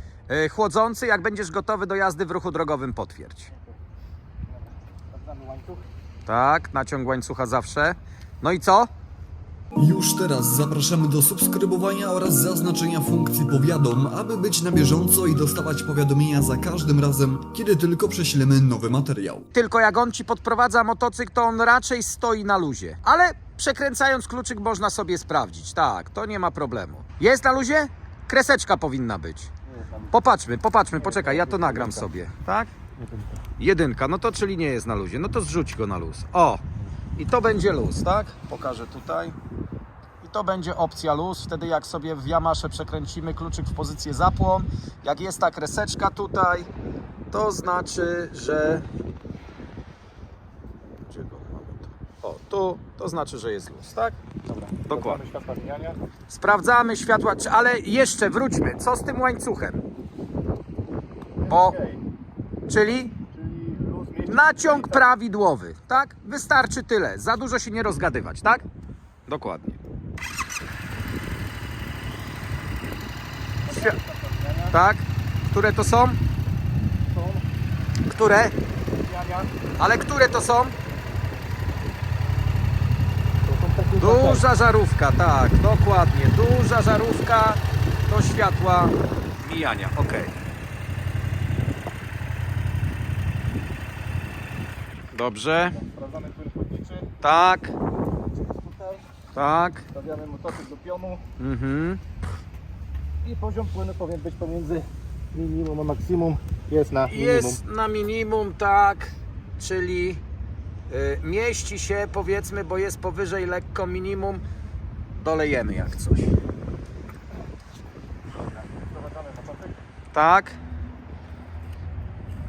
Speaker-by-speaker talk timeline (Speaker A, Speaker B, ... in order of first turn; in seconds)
Speaker A: 0.3-3.5, 6.3-8.9, 19.5-29.5, 30.1-32.7, 33.6-36.6, 37.2-39.4, 40.2-46.7, 47.3-48.9, 51.1-54.2, 54.9-55.2, 56.3-59.8, 61.5-61.8, 62.7-63.1, 64.3-68.6, 69.3-69.8, 73.7-74.0, 74.7-76.2, 78.1-78.5, 79.8-80.7, 84.0-90.3, 95.1-95.8, 97.2-97.8, 99.3-99.8, 101.4-102.0, 107.1-110.2, 110.9-114.4, 115.2-116.3, 120.1-120.6
Speaker B: 5.1-5.9, 31.0-32.0, 33.0-33.4, 54.4-56.0, 61.4-62.0, 63.3-65.1, 73.7-74.7, 77.0-77.5, 79.0-79.5, 83.5-84.4, 95.8-97.1, 98.5-99.0, 99.9-101.2, 103.2-107.6, 118.8-119.8
Speaker C: 9.8-19.5